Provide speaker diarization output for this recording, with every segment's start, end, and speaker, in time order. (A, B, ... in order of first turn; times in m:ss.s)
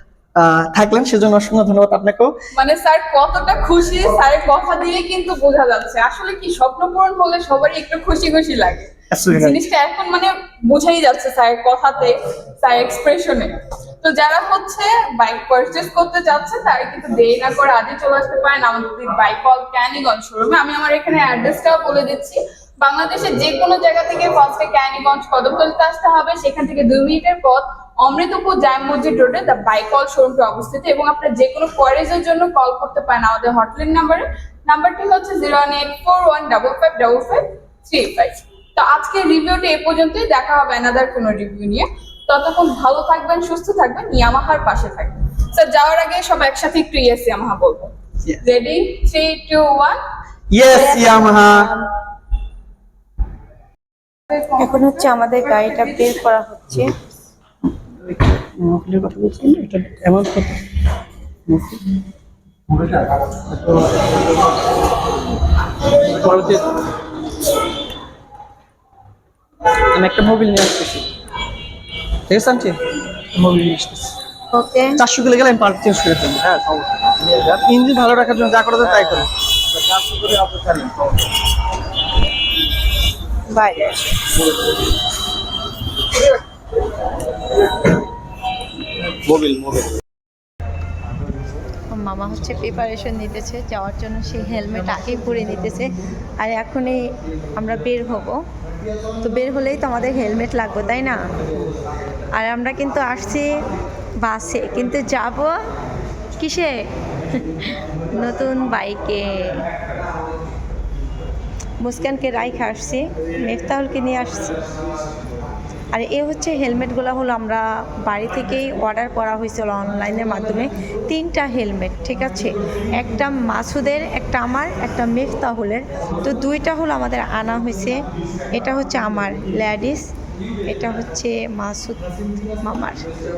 0:00.4-0:02.3 A
0:02.6-0:50.0 B
0:09.1-0:09.6 A
0:50.5-0:51.7 A
0:50.6-0:51.8 C
0:54.5-0:56.9 C
0:57.8-1:00.6 A
1:01.5-1:01.8 A
1:02.7-1:04.1 A
1:06.0-1:06.8 A
1:09.9-1:11.1 A
1:12.3-1:12.8 A
1:13.3-1:14.1 A
1:14.5-1:15.0 C
1:15.0-1:16.6 A
1:17.6-1:19.3 A
1:18.9-1:19.2 D
1:19.7-1:20.9 D
1:23.5-1:24.0 C
1:29.2-1:29.9 D
1:31.9-1:37.0 C
1:37.5-1:38.4 C
1:39.2-1:41.2 C
1:42.4-1:43.6 C
1:44.2-1:45.5 C
1:46.4-1:46.8 C
1:47.6-1:49.6 C
1:51.8-1:54.5 C
1:55.9-2:10.1 C
2:10.6-2:13.1 C